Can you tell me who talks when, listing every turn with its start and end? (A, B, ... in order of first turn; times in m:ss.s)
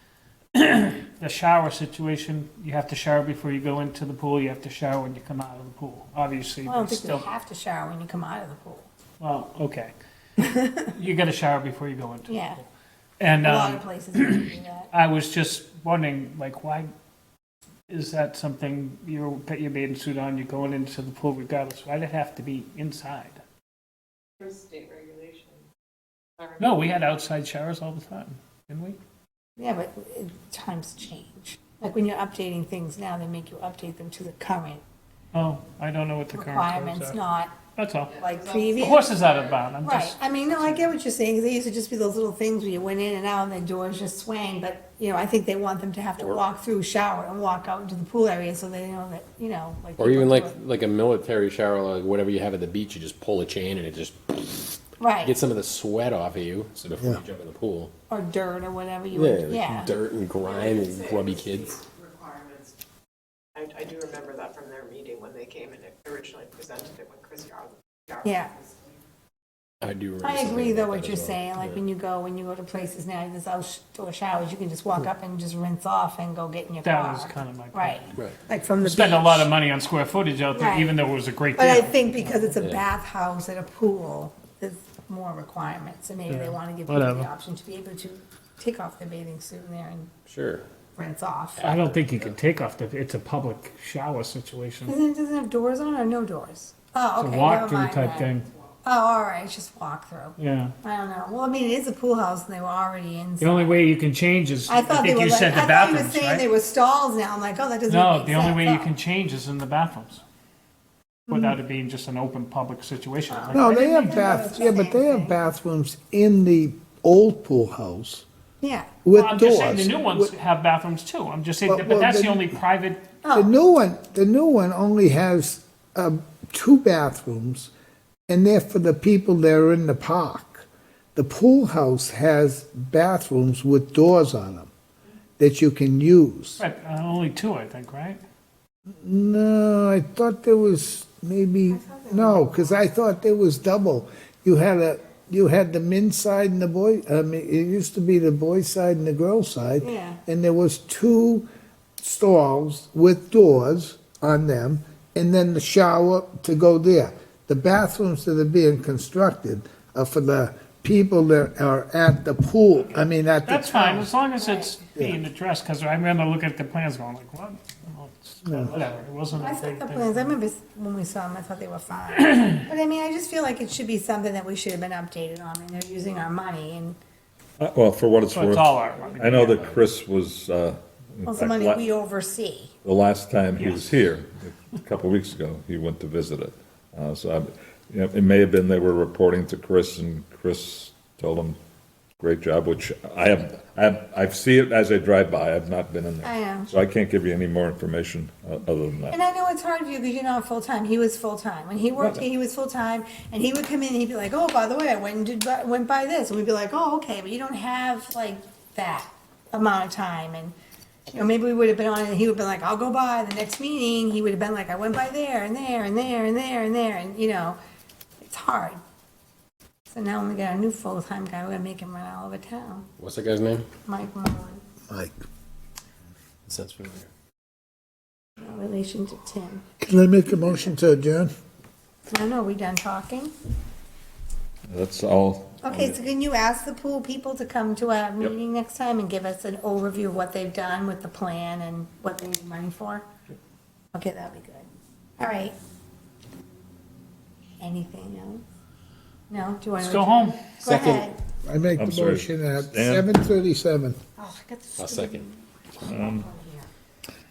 0:00.6-0:07.3 A
0:06.7-0:08.9 B
0:09.2-0:09.9 A
0:10.4-0:10.8 B
0:10.9-0:12.6 A
0:12.3-0:12.6 B
0:13.2-0:16.9 A
0:13.4-0:14.9 B
0:17.9-0:23.4 A
0:24.4-0:25.6 C
0:26.4-0:26.8 C
0:26.6-0:29.0 A
0:29.6-0:34.8 B
0:35.3-0:37.2 A
0:36.3-0:37.5 B
0:37.8-0:38.2 A
0:38.2-0:39.0 B
0:38.2-0:39.3 C
0:38.8-0:40.2 A
0:39.8-0:50.6 B
0:50.0-0:57.9 D
0:55.0-0:55.4 B
0:58.1-0:59.9 B
0:59.1-1:01.8 D
1:01.8-1:02.6 C
1:03.6-1:08.3 C
1:08.2-1:08.6 B
1:09.8-1:11.8 D
1:10.2-1:19.5 B
1:16.8-1:18.1 A
1:18.8-1:22.5 A
1:20.5-1:21.0 B
1:21.6-1:30.1 B
1:26.3-1:27.3 A
1:30.3-1:30.6 D
1:31.0-1:31.7 B
1:31.6-1:32.4 D
1:31.6-1:35.0 A
1:34.9-1:38.3 B
1:37.2-1:38.5 A
1:38.8-1:43.8 B
1:40.4-1:40.7 A
1:43.4-1:46.4 A
1:44.7-1:48.9 B
1:47.9-1:50.2 A
1:51.3-1:51.6 B
1:51.3-1:54.4 A
1:53.3-1:55.4 B
1:53.5-1:58.3 E
1:58.6-1:59.0 B
1:59.0-2:00.3 E
1:59.1-2:03.0 A
2:01.7-2:02.5 E
2:03.2-2:03.5 B
2:03.3-2:07.7 E
2:08.3-2:14.7 E
2:15.4-2:16.6 E
2:16.6-2:18.2 A
2:19.0-2:31.5 E
2:21.7-2:22.8 B
2:29.8-2:30.2 B
2:32.0-2:44.1 E
2:43.4-2:50.4 A
2:44.4-2:44.8 B
2:48.4-2:48.7 E
2:49.3-2:57.0 B
2:57.6-3:01.9 F
2:58.3-2:59.8 A
3:01.3-3:02.7 B
3:02.8-3:11.6 F
3:03.6-3:03.9 A
3:12.2-3:19.2 F
3:16.2-3:16.7 B
3:19.1-3:30.5 B
3:22.0-3:22.2 F
3:31.1-3:37.6 B
3:38.2-3:38.8 B
3:39.9-3:42.9 B
3:43.0-3:43.7 D
3:43.8-3:44.6 B
3:44.9-3:45.2 E
3:46.5-3:47.1 D
3:48.4-3:49.6 B
3:49.8-3:51.3 E
3:52.1-3:53.3 B
3:54.7-3:56.0 F
3:55.6-4:03.1 B
4:03.9-4:04.7 B
4:05.2-4:05.6 B
4:07.6-4:08.4 B
4:09.3-4:11.2 B
4:09.8-4:10.5 A
4:10.6-4:11.1 D
4:11.4-4:14.0 E
4:11.8-4:13.1 F
4:14.2-4:16.7 B
4:14.8-4:15.2 D
4:15.8-4:16.3 F